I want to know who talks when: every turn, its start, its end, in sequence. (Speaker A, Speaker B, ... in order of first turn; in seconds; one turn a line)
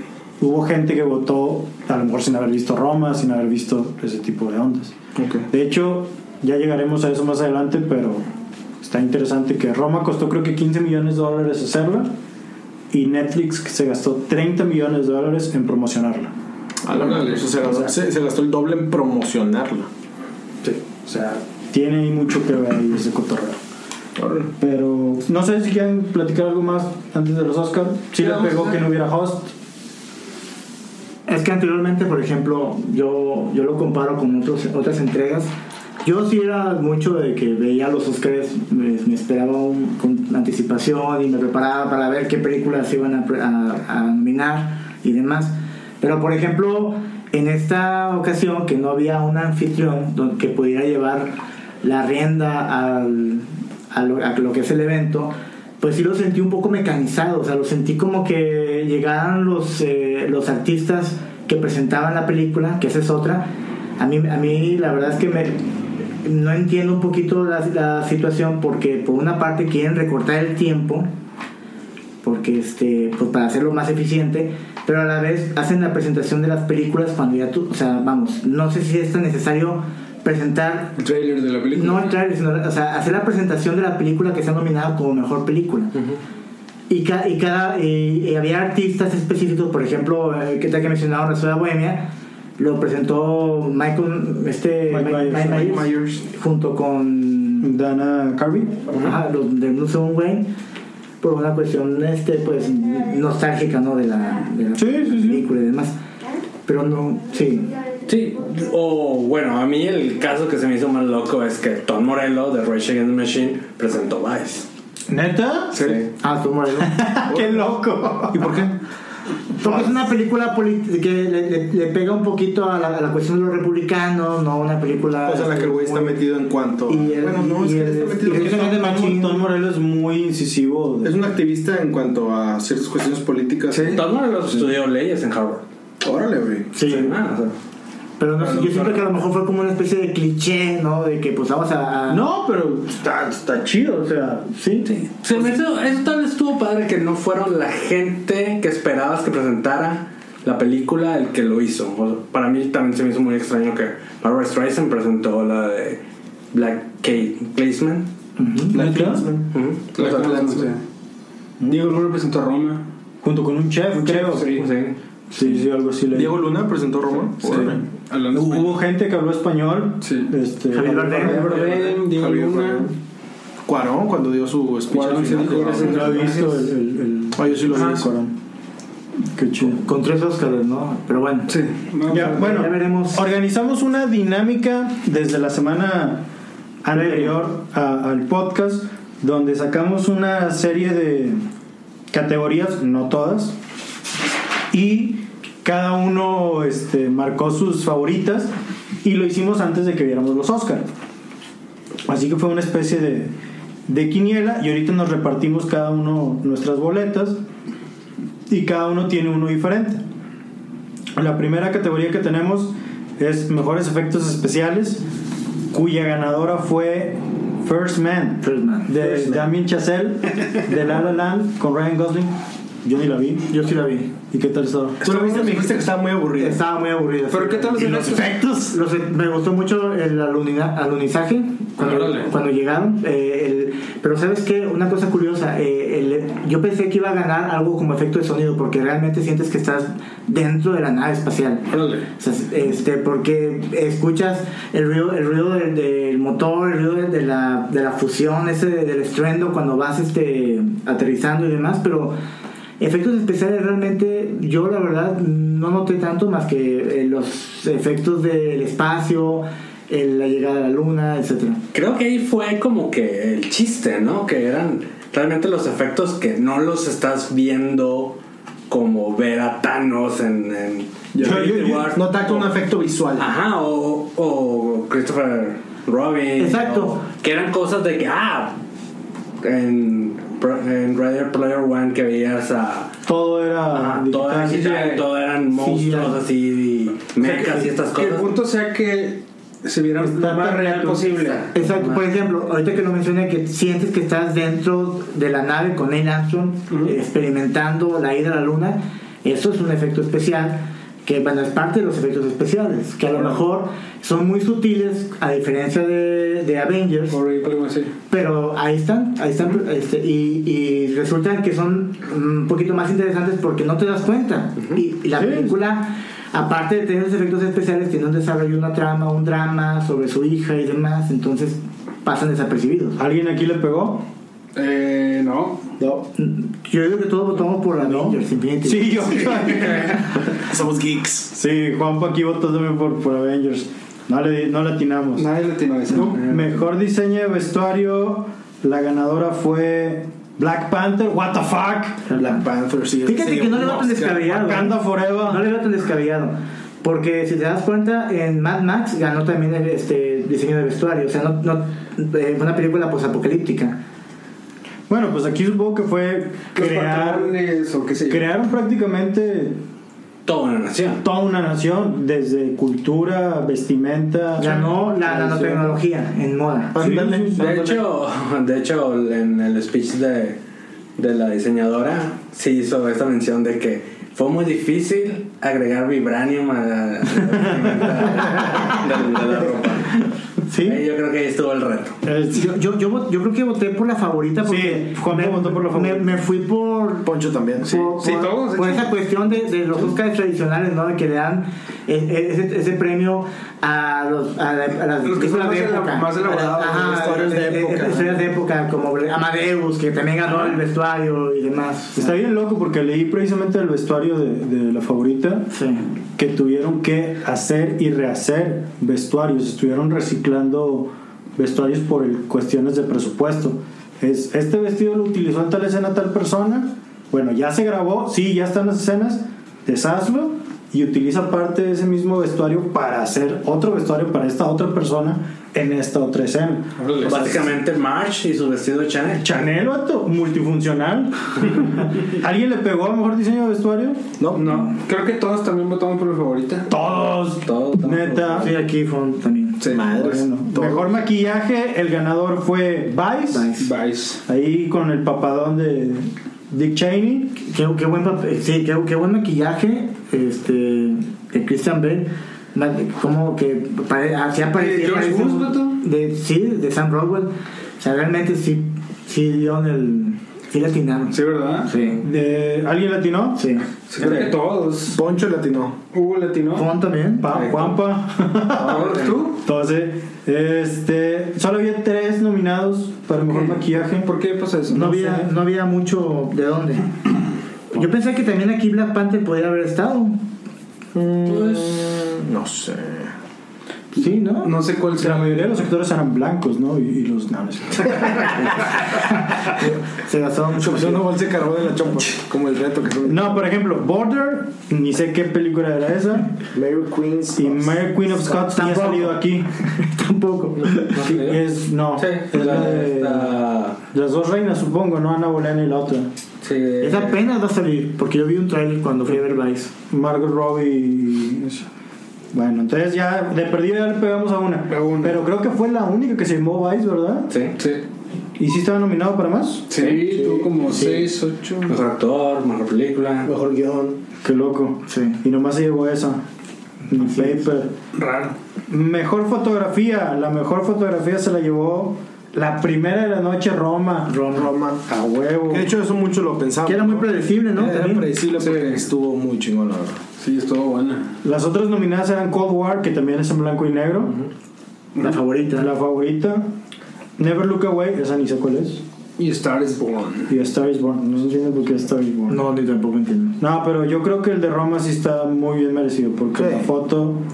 Speaker A: 0.4-8.2
Speaker B: 5.2-5.5
Speaker A: 8.8-12.1
Speaker A: 12.9-16.3
Speaker B: 16.8-19.9
Speaker A: 17.6-17.9
Speaker A: 20.6-23.6
Speaker B: 24.2-24.5
Speaker A: 24.6-29.5
Speaker C: 28.2-28.8
Speaker D: 31.3-35.5
Speaker D: 36.0-65.6
Speaker D: 66.2-71.1
Speaker D: 72.2-81.0
Speaker C: 81.0-82.2
Speaker D: 81.7-85.9
Speaker E: 85.9-86.2
Speaker D: 86.9-97.7
Speaker A: 94.9-95.8
Speaker B: 95.5-96.2
Speaker A: 97.6-98.8
Speaker D: 98.9-100.5
Speaker D: 101.2-106.0
Speaker A: 104.8-105.4
Speaker D: 106.7-107.7
Speaker E: 108.1-114.7
Speaker A: 115.1-115.8
Speaker E: 115.8-116.1
Speaker D: 116.2-117.0
Speaker A: 116.8-118.7
Speaker B: 117.3-118.7
Speaker D: 119.6-126.2
Speaker B: 119.6-119.9
Speaker B: 125.2-128.7
Speaker D: 126.9-129.4
Speaker A: 128.3-131.2
Speaker B: 131.0-134.0
Speaker C: 133.7-134.0
Speaker E: 133.9-135.6
Speaker B: 136.0-136.7
Speaker D: 136.7-137.2
Speaker E: 136.8-137.6
Speaker D: 138.2-142.2
Speaker E: 138.4-139.0
Speaker A: 142.1-144.5
Speaker D: 144.5-144.9
Speaker E: 144.9-156.0
Speaker E: 156.5-158.1
Speaker D: 158.4-159.2
Speaker B: 158.7-159.5
Speaker A: 158.7-159.2
Speaker E: 159.5-160.1
Speaker C: 160.0-160.8
Speaker B: 160.0-160.7
Speaker A: 161.6-162.0
Speaker C: 161.6-162.9
Speaker A: 163.2-164.5
Speaker C: 163.9-164.7
Speaker E: 164.5-165.0
Speaker D: 165.3-165.6
Speaker A: 165.3-166.4
Speaker B: 166.1-167.8
Speaker C: 167.4-168.8
Speaker A: 167.5-171.7
Speaker C: 170.0-170.3
Speaker D: 170.7-171.7
Speaker C: 171.2-172.9
Speaker B: 171.3-172.9
Speaker B: 173.7-176.2
Speaker C: 174.9-176.7
Speaker A: 175.8-178.3
Speaker B: 177.4-178.1
Speaker C: 177.7-178.0
Speaker A: 179.3-179.8
Speaker D: 179.7-181.6
Speaker C: 181.5-182.4
Speaker A: 182.1-186.3
Speaker D: 182.1-183.2
Speaker A: 186.8-191.4
Speaker D: 186.9-187.3
Speaker A: 192.1-193.6
Speaker A: 194.7-200.9
Speaker A: 202.1-203.3
Speaker A: 203.9-207.4
Speaker A: 208.5-210.0
Speaker A: 211.2-215.1
Speaker A: 215.7-223.5
Speaker D: 218.4-219.2
Speaker B: 219.1-219.3
Speaker D: 223.5-224.1
Speaker A: 224.3-225.7
Speaker B: 225.0-226.6
Speaker D: 226.4-241.7
Speaker C: 227.3-228.3
Speaker A: 227.8-228.8
Speaker C: 231.8-232.3
Speaker C: 241.7-242.1
Speaker D: 242.2-252.2
Speaker D: 252.8-261.6
Speaker E: 261.7-272.5
Speaker B: 271.1-273.3
Speaker A: 271.2-271.9
Speaker E: 273.2-278.6
Speaker D: 276.4-277.1
Speaker E: 279.4-282.9
Speaker A: 283.1-284.7
Speaker E: 283.7-288.3
Speaker C: 284.4-285.1
Speaker D: 285.6-286.2
Speaker C: 287.2-291.5
Speaker A: 290.0-291.1
Speaker E: 291.2-292.1
Speaker D: 291.5-307.2
Speaker C: 296.7-296.9
Speaker C: 307.1-307.9
Speaker D: 308.1-323.0
Speaker A: 315.1-315.6
Speaker A: 323.0-324.1
Speaker C: 324.6-325.7
Speaker D: 326.1-329.4
Speaker A: 327.7-330.2
Speaker B: 330.4-331.3
Speaker A: 331.3-335.2
Speaker C: 335.2-336.5
Speaker A: 335.9-342.1
Speaker D: 342.1-342.4
Speaker B: 342.1-344.3
Speaker D: 343.1-353.8
Speaker A: 344.3-345.4
Speaker A: 354.9-357.3
Speaker C: 356.6-358.3
Speaker A: 358.1-359.6
Speaker E: 360.2-361.0
Speaker A: 361.0-365.7
Speaker D: 364.4-366.8
Speaker B: 366.7-367.9
Speaker A: 366.8-367.4
Speaker E: 367.4-370.4
Speaker E: 371.0-380.1
Speaker A: 377.3-378.5
Speaker D: 380.5-380.8
Speaker E: 380.6-382.0
Speaker A: 382.0-382.5
Speaker D: 382.3-402.1
Speaker A: 384.4-386.2
Speaker B: 387.0-387.9
Speaker C: 387.9-388.9
Speaker C: 395.0-397.1
Speaker B: 396.6-398.2
Speaker A: 402.0-405.5
Speaker D: 405.5-405.9
Speaker A: 406.2-427.5
Speaker C: 426.8-427.3
Speaker E: 427.0-429.4
Speaker A: 429.2-434.1
Speaker B: 434.2-434.6
Speaker C: 434.4-436.7
Speaker A: 436.7-438.6
Speaker E: 437.4-438.6
Speaker D: 438.4-439.6
Speaker C: 439.6-440.1
Speaker B: 439.7-440.9
Speaker A: 439.9-443.5
Speaker D: 443.3-443.7
Speaker C: 443.6-444.2
Speaker A: 444.3-447.4
Speaker D: 447.4-462.0
Speaker C: 454.5-455.8
Speaker C: 461.1-461.7
Speaker A: 462.0-463.5
Speaker D: 463.4-463.6
Speaker C: 463.9-465.0
Speaker E: 464.0-464.3
Speaker B: 464.9-465.8
Speaker C: 465.9-466.7
Speaker D: 466.6-467.4
Speaker A: 467.2-474.1
Speaker C: 467.3-467.8
Speaker C: 468.6-469.4
Speaker D: 468.7-469.2
Speaker C: 473.2-474.9
Speaker D: 474.7-476.9
Speaker A: 474.7-475.3
Speaker D: 477.7-480.2
Speaker B: 480.9-483.1
Speaker D: 483.9-484.6
Speaker C: 484.0-485.6
Speaker A: 485.0-488.4
Speaker D: 489.0-491.1
Speaker B: 490.6-493.4
Speaker A: 493.1-496.3
Speaker B: 496.5-497.8
Speaker A: 497.4-499.6
Speaker D: 498.5-501.0
Speaker E: 500.9-501.4
Speaker A: 501.1-506.1
Speaker E: 501.9-503.8
Speaker E: 506.4-507.2
Speaker D: 506.8-509.7
Speaker A: 509.9-511.7
Speaker A: 512.3-517.3
Speaker C: 514.7-515.2
Speaker E: 517.3-517.5
Speaker A: 518.4-519.7
Speaker C: 519.7-521.8
Speaker B: 519.9-520.8
Speaker D: 520.7-521.1
Speaker E: 521.7-523.3
Speaker B: 523.2-524.0
Speaker A: 524.2-526.2
Speaker D: 524.9-525.2
Speaker A: 526.9-527.8
Speaker D: 527.0-527.4
Speaker C: 527.9-528.4
Speaker A: 528.7-534.2
Speaker D: 534.1-534.5
Speaker B: 534.3-534.8
Speaker A: 534.9-535.7
Speaker B: 535.5-540.0
Speaker D: 536.7-538.1
Speaker C: 538.4-538.8
Speaker C: 540.2-541.2
Speaker A: 541.2-544.2
Speaker D: 545.0-545.7
Speaker A: 545.6-546.5
Speaker A: 547.2-548.8
Speaker C: 549.2-550.3
Speaker A: 550.3-552.4
Speaker D: 552.3-553.4
Speaker A: 553.4-557.2
Speaker B: 556.4-556.7